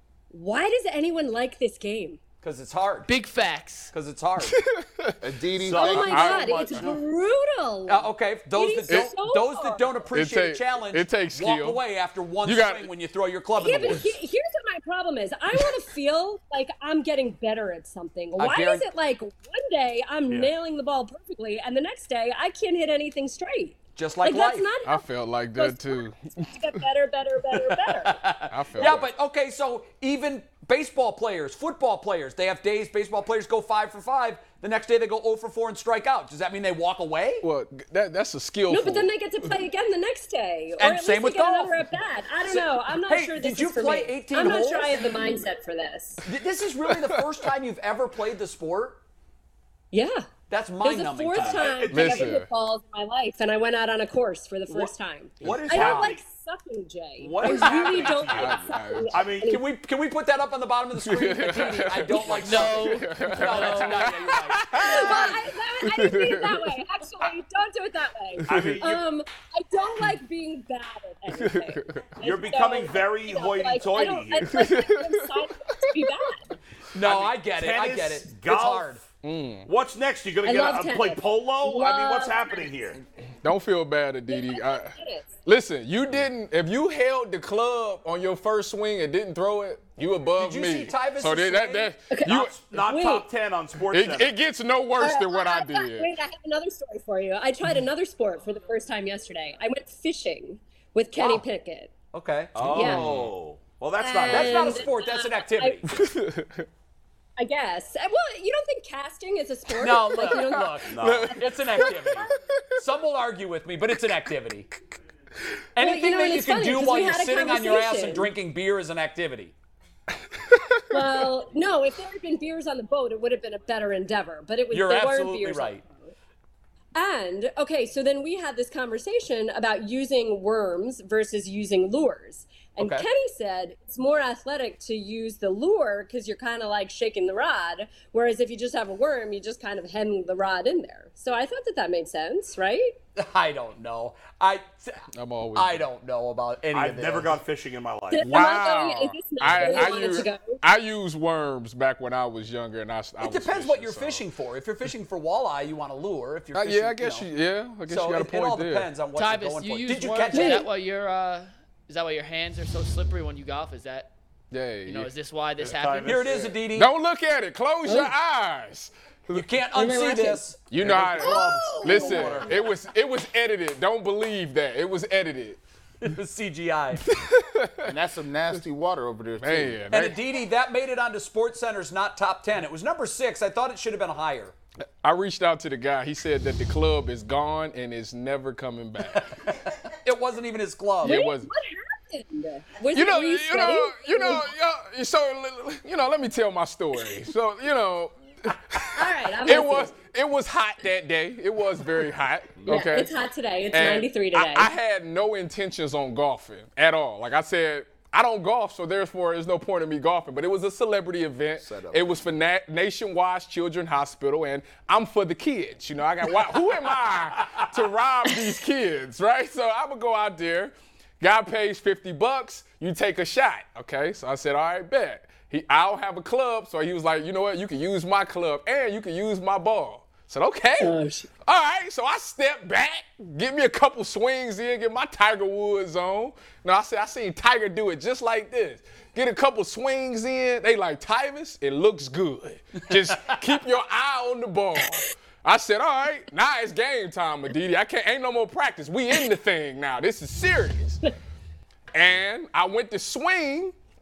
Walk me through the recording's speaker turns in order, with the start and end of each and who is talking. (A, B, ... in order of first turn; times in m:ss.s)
0:00.3-0:02.2 A
0:02.4-0:03.1 B
0:03.1-0:03.9 C
0:03.9-0:04.6 B
0:04.5-0:05.2 D
0:05.2-0:07.0 E
0:05.6-0:06.2 F
0:05.7-0:10.0 A
0:05.8-0:06.9 D
0:07.9-0:14.1 B
0:08.9-0:09.2 D
0:10.1-0:11.8 D
0:12.4-0:12.9 D
0:13.6-0:29.0 A
0:18.4-0:18.9 B
0:20.3-0:20.5 F
0:24.0-0:24.7 B
0:24.8-0:26.8 D
0:27.6-0:37.5 B
0:28.5-0:29.1 D
0:37.4-0:39.5 D
0:38.7-0:46.2 A
0:40.8-0:41.8 B
0:42.4-0:45.2 B
0:46.2-0:49.0 B
0:49.9-0:50.3 A
0:50.5-0:51.8 B
0:50.8-0:59.6 A
0:51.3-0:52.3 F
0:51.9-0:52.5 D
0:55.4-0:56.2 F
0:55.4-0:56.1 B
0:57.2-0:59.6 F
0:57.5-0:59.2 D
0:57.6-0:58.1 B
0:59.4-1:05.4 B
1:01.0-1:06.8 D
1:02.3-1:04.3 C
1:04.8-1:16.6 A
1:08.5-1:09.1 F
1:08.5-1:08.8 D
1:11.3-1:12.1 D
1:12.2-1:14.7 F
1:14.5-1:15.8 D
1:16.9-1:19.0 B
1:17.0-1:19.1 F
1:19.2-1:19.7 D
1:19.7-1:23.0 F
1:20.4-1:22.9 A
1:23.4-1:32.5 D
1:24.3-1:25.4 A
1:30.4-1:31.9 B
1:32.1-1:33.3 A
1:32.2-1:34.3 F
1:33.9-1:36.1 D
1:35.0-1:41.9 A
1:41.2-1:41.5 B
1:42.1-1:43.3 B
1:42.6-1:44.9 F
1:42.7-1:43.1 A
1:44.0-1:46.0 A
1:44.3-1:46.0 B
1:45.9-1:46.7 D
1:47.4-1:50.9 A
1:49.8-1:54.7 B
1:50.2-1:52.6 D
1:50.9-1:51.4 F
1:51.8-1:52.2 A
1:55.8-1:59.5 B
1:55.8-1:58.3 A
2:00.5-2:01.3 D
2:00.9-2:06.1 A
2:04.7-2:05.8 B
2:07.0-2:23.0 A
2:12.8-2:13.1 B
2:23.2-2:27.4 B
2:25.2-2:25.9 D
2:26.7-2:28.3 F
2:28.1-2:30.6 A
2:28.2-2:34.2 D
2:29.5-2:30.0 B
2:33.2-2:37.3 B
2:36.5-2:38.9 D
2:37.9-2:40.6 B
2:39.2-2:44.1 C
2:40.3-2:40.7 A
2:44.5-2:45.1 D
2:44.9-2:46.4 C
2:45.6-2:46.5 F
2:46.0-2:46.9 B
2:46.6-2:49.4 D
2:47.8-2:48.1 A
2:49.3-2:51.4 B
2:49.8-2:50.4 A
2:50.7-2:55.6 D
2:50.8-2:52.6 F
2:51.2-2:52.7 A
2:52.0-2:52.5 B
2:56.0-2:57.0 B
2:57.1-2:57.9 D
2:57.8-2:59.8 E
2:59.4-3:00.2 D
2:59.9-3:04.6 B
3:05.0-3:09.3 D
3:09.1-3:11.2 B
3:11.0-3:14.5 A
3:11.0-3:11.5 D
3:12.9-3:23.2 D
3:18.9-3:20.0 A
3:22.7-3:24.7 A
3:23.7-4:11.0 D
3:31.6-3:32.2 E
3:50.8-3:51.3 A
4:11.9-4:13.8 D